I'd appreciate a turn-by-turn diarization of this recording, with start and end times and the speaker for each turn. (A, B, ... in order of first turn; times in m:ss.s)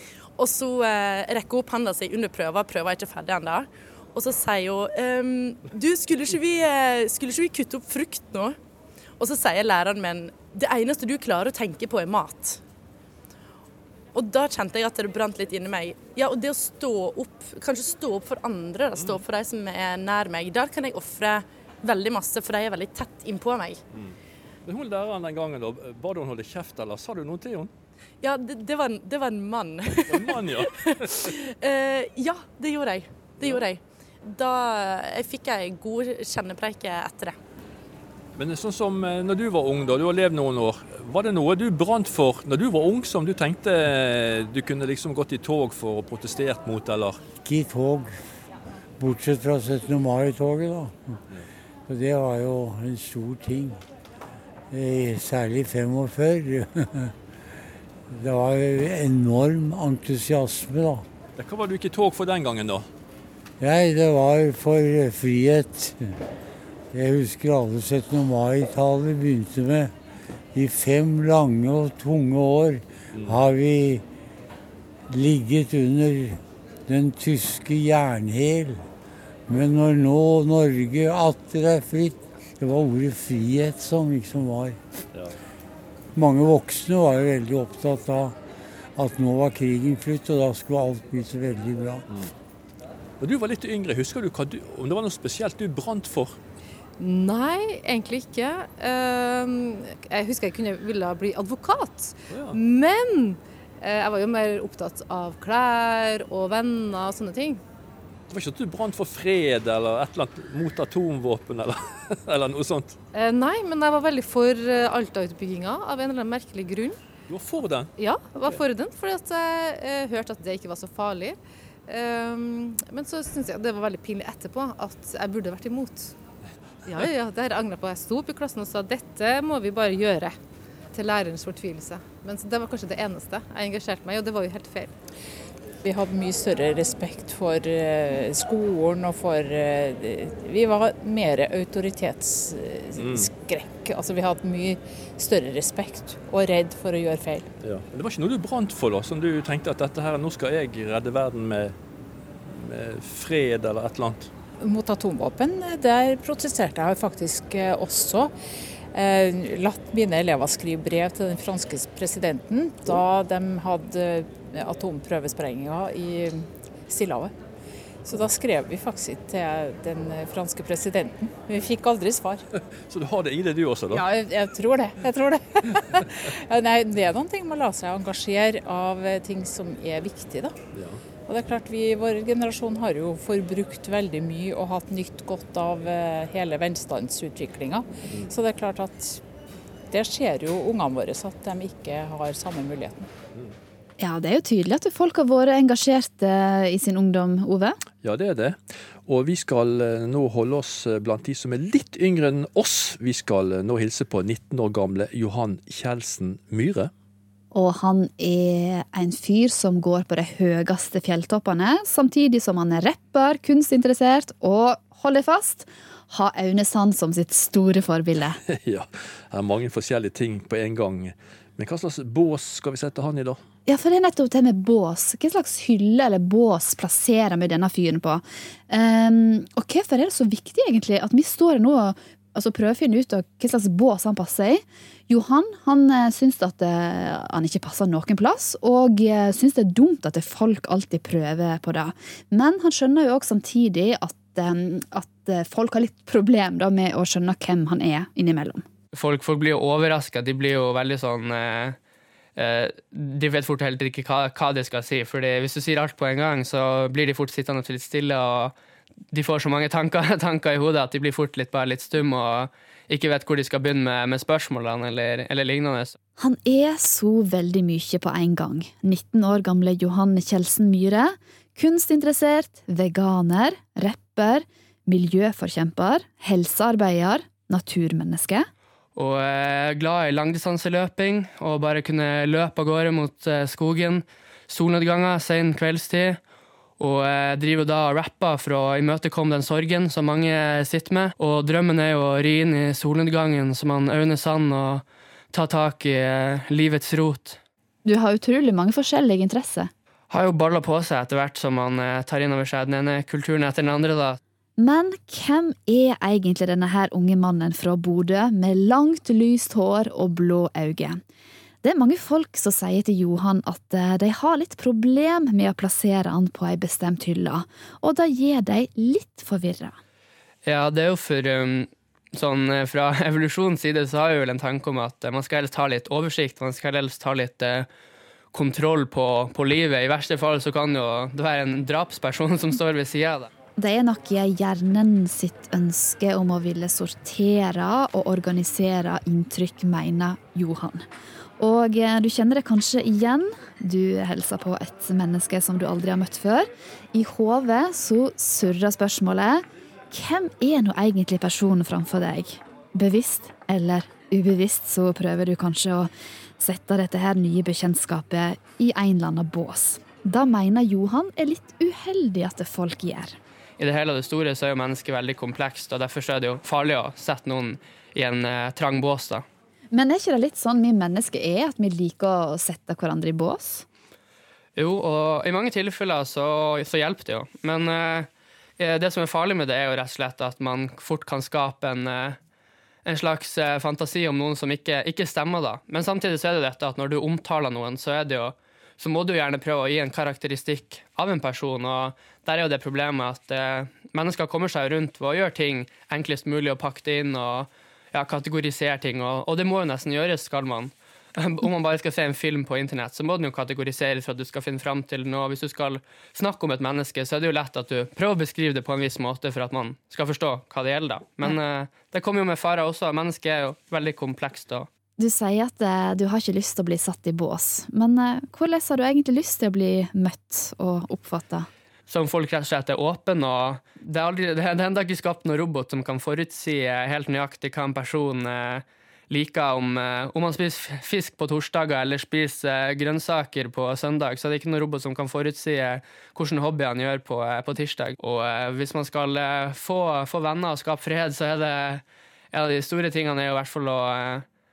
0:00.4-0:08.6 A
0:09.2-0:12.6 A
0:14.1-0:23.8 A
0:19.0-0:19.2 B
0:23.9-0:27.7 B
0:28.2-0:37.4 A
0:30.1-0:31.4 B
0:33.4-0:33.6 B
0:38.4-0:47.2 B
0:47.4-0:48.2 C
0:49.0-0:51.2 C
0:51.9-0:53.8 C
0:54.7-0:57.1 C
0:58.1-1:01.0 C
1:01.4-1:02.9 B
1:03.6-1:06.2 C
1:06.9-1:09.9 C
1:10.5-1:14.0 C
1:13.1-1:13.4 B
1:15.1-1:18.8 C
1:19.5-1:24.8 C
1:26.2-1:28.4 C
1:29.0-1:32.0 C
1:33.2-1:36.4 B
1:37.0-1:47.6 D
1:42.3-1:42.6 B
1:48.3-1:53.0 B
1:53.1-1:57.0 D
1:57.3-1:57.9 B
1:58.0-2:06.2 D
2:06.9-2:10.4 D
2:10.9-2:14.9 D
2:15.8-2:27.5 E
2:23.0-2:23.3 B
2:27.6-2:31.8 B
2:32.4-2:34.3 B
2:34.6-2:38.3 E
2:38.9-2:47.4 E
2:48.0-2:52.4 E
2:52.8-2:54.0 B
2:53.9-3:00.6 E
3:00.7-3:01.0 B
3:01.3-3:09.2 E
3:09.9-3:13.1 E
3:14.0-3:17.8 F
3:18.0-3:26.9 B
3:27.5-3:38.4 F
3:38.4-3:43.4 B
3:43.7-4:08.6 F
4:08.9-4:11.8 G
4:12.4-4:18.5 G
4:19.1-4:26.0 G
4:26.2-4:38.5 F
4:39.0-4:46.2 G
4:46.8-4:57.4 G
4:57.8-4:59.7 F
5:00.1-5:04.2 G
5:04.6-5:11.0 F
5:11.6-5:19.8 F
5:20.4-5:27.7 G
5:28.3-5:33.3 G
5:33.6-5:40.9 F
5:41.4-6:03.2 F
6:03.6-6:09.3 G
6:09.7-6:13.7 F
6:14.6-6:22.2 G
6:22.8-6:54.7 G
6:55.0-7:01.5 F
7:01.9-7:24.3 G